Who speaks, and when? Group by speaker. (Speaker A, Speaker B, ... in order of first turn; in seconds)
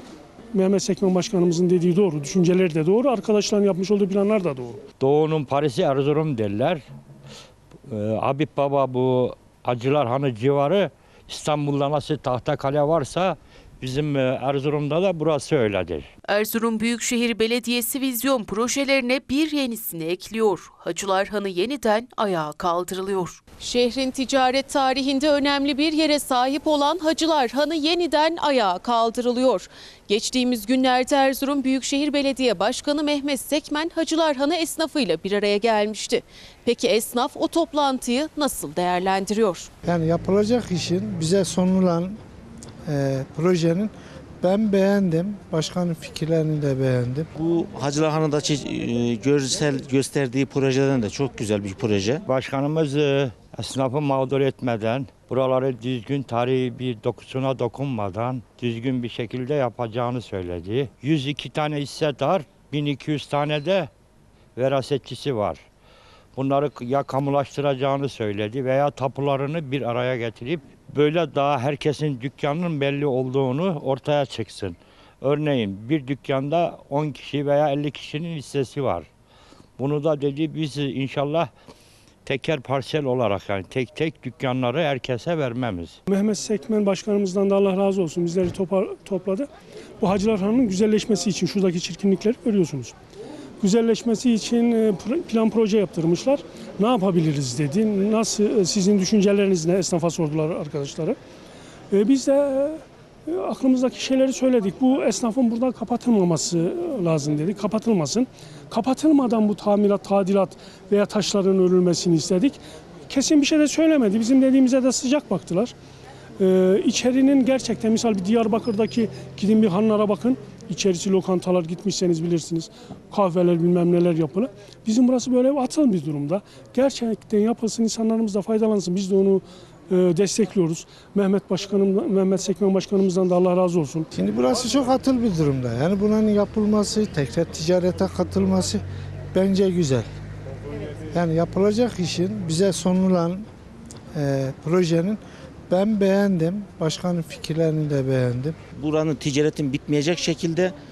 Speaker A: 0.5-4.8, 86.1-89.5, 90.0-92.9, 93.6-101.2, 101.9-115.7, 116.4-134.1
Speaker B: 5.0-6.8, 7.9-16.1, 52.2-63.9, 64.5-65.6, 66.3-79.1, 79.8-81.5, 82.2-86.0
Speaker C: 16.3-39.7
Speaker D: 39.8-42.2, 42.9-47.3, 134.1-138.8, 139.3-140.1, 141.1-143.4, 144.1-148.6
Speaker E: 47.4-52.2, 148.7-150.7